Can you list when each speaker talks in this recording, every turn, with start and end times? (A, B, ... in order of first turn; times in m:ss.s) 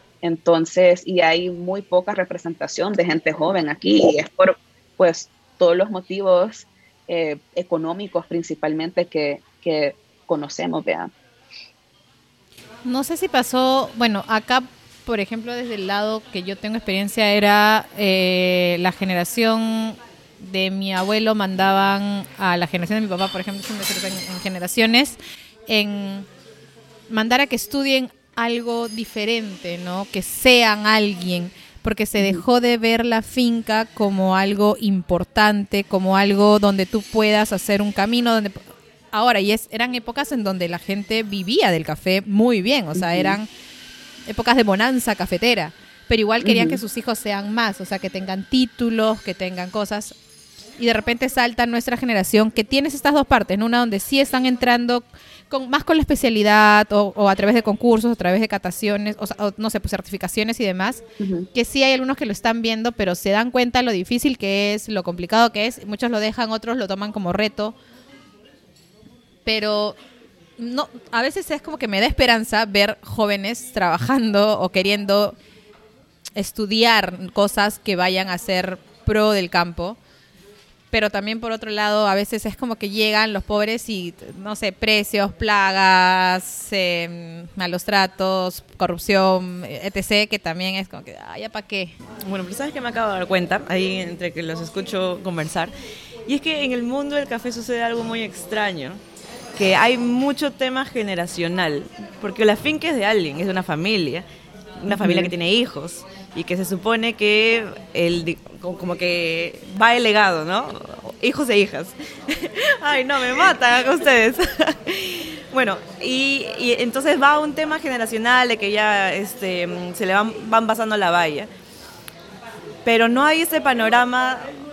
0:00.2-0:11.1 A
0:12.8-0:26.3 B
0:27.1-0:43.5 B
0:32.2-0:32.4 A
0:42.9-0:43.4 A
0:44.3-0:50.2 B
0:46.4-0:46.8 A
0:50.8-1:01.0 B
1:01.2-1:01.5 A
1:01.5-1:07.8 B
1:09.4-1:10.0 B
1:10.6-1:15.4 B
1:16.4-1:20.0 B
1:20.9-1:32.0 B
1:32.2-1:35.7 C
1:36.3-1:39.0 C
1:39.6-1:44.2 C
1:44.8-2:01.5 C
1:44.9-1:45.3 A
2:02.8-2:04.5 C